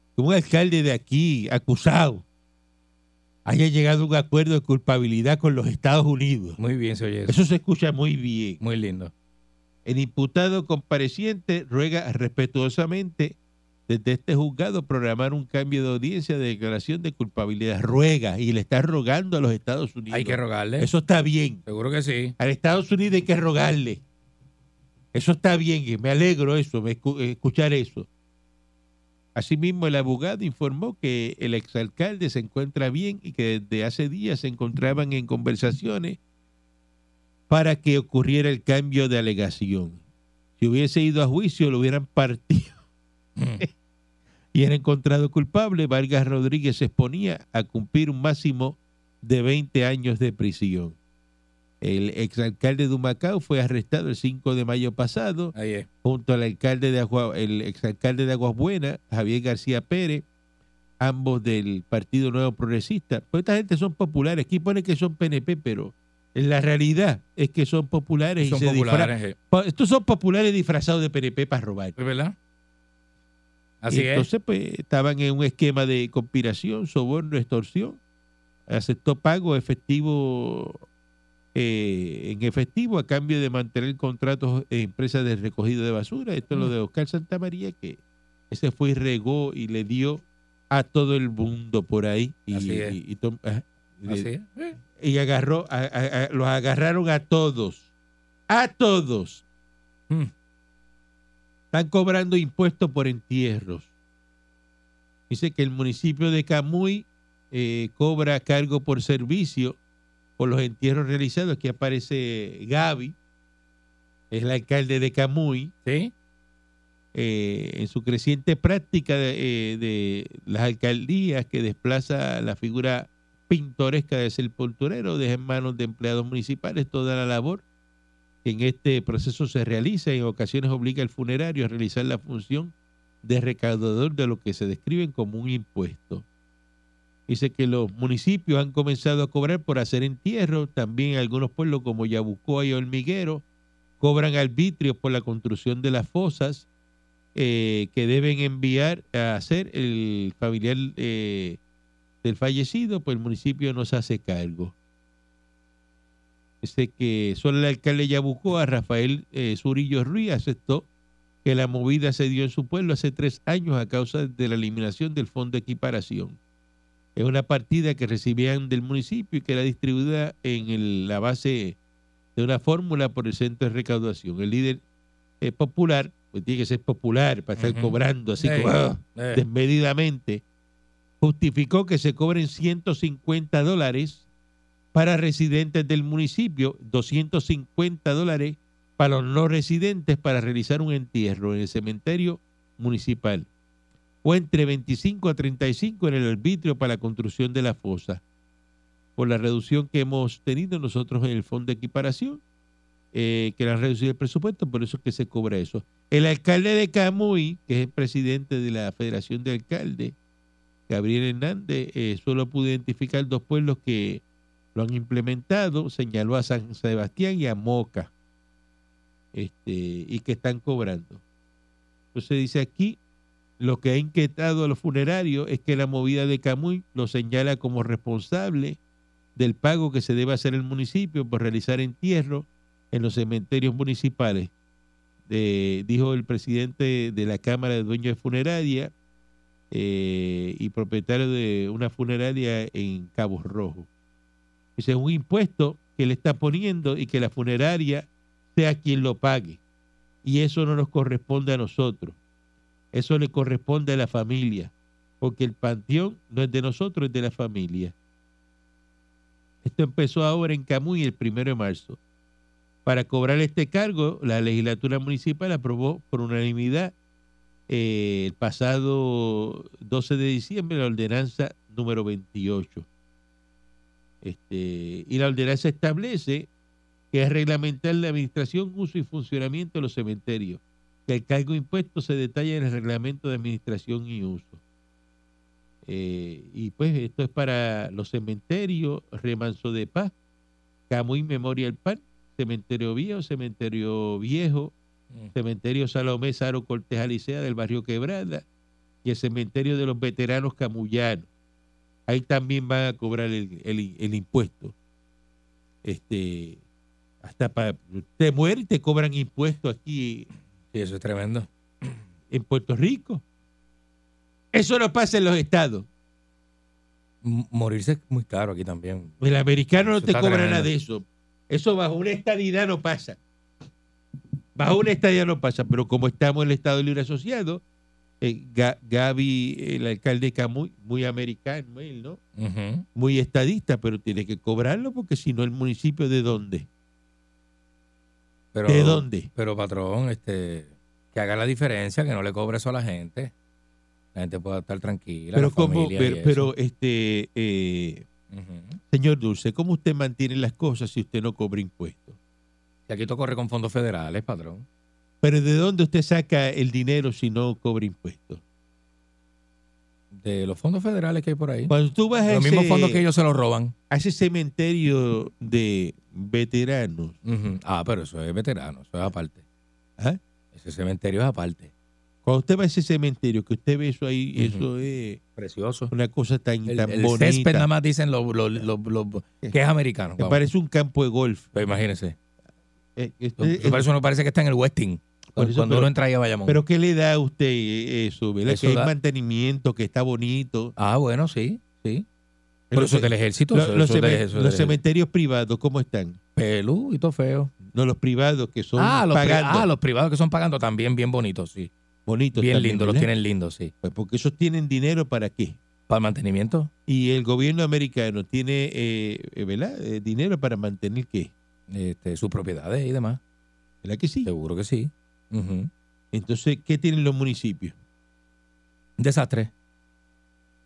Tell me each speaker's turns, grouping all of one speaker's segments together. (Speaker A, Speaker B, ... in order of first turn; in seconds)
Speaker A: 0.1-2.2, 3.5-6.6, 7.2-8.6, 9.8-13.3, 13.9-21.6, 22.4-24.0, 25.1-28.1, 29.3-36.2, 37.5-40.0, 40.6-42.8, 44.5-51.0, 51.8-60.2, 61.0-71.9, 73.9-78.0, 78.7-80.8, 81.5-88.0, 88.5-94.3, 95.0-97.8, 98.5-99.4, 101.7-103.9, 105.3-109.8, 110.4-113.2, 114.3-115.7, 117.1-127.6, 128.4-136.2, 137.3-143.4, 144.0-146.7, 147.3-151.6, 152.2-154.7, 156.6-160.9, 161.4-166.4, 167.2-171.8, 172.3-174.8, 175.4-180.4, 181.2-184.2, 184.9-193.5, 194.2-198.2, 199.2-202.4, 203.1-210.1, 210.9-214.2, 214.7-218.1, 219.3-221.2, 222.1-223.0, 223.6-228.8, 229.3-234.5, 235.3-238.9, 239.7-243.9, 244.8-249.6, 250.2-252.2, 252.9-257.9, 259.6-262.0, 262.9-266.9, 267.7-272.9, 274.2-276.5, 277.1-284.6, 285.9-290.1, 290.9-294.7, 295.3-298.4, 299.0-301.3, 302.1-304.7, 305.8-306.6, 307.2-310.3, 312.3-313.2, 314.5-315.9, 319.2-323.2, 324.6-327.6, 328.2-332.2, 332.9-336.7, 338.7-339.3, 345.3-348.1, 348.9-352.2, 355.2-358.4, 361.7-363.0, 363.9-367.2, 372.2-375.2, 375.9-377.7, 380.2-381.5, 382.9-383.9, 385.4-385.9, 386.4-390.7, 392.7-396.2, 397.7-399.7, 402.1-403.1, 403.8-405.6, 406.9-411.3, 413.8-414.3, 416.1-417.7
Speaker B: 6.6-7.4, 8.6-9.1, 20.1-20.9, 21.6-22.4, 43.4-43.6, 55.5-55.9, 68.4-69.4, 72.0-72.3, 73.8-74.3, 92.5-93.0, 94.1-94.8, 115.8-116.1, 177.6-179.4, 310.7-312.0, 317.2-319.2, 319.8-320.7, 332.4-332.9, 338.5-343.3, 344.1-346.5, 348.3-348.8, 352.9-354.6, 360.1-361.7, 362.3-363.7, 367.2-369.4, 370.5-371.7, 374.4-374.6, 375.4-375.9, 376.6-380.4, 381.5-382.1, 383.4-386.6, 388.5-388.9, 390.8-392.1, 392.7-394.8, 396.4-397.5, 398.8-401.7, 402.3-403.7, 405.9-406.7, 411.7-413.2, 414.2-415.7, 419.0-419.5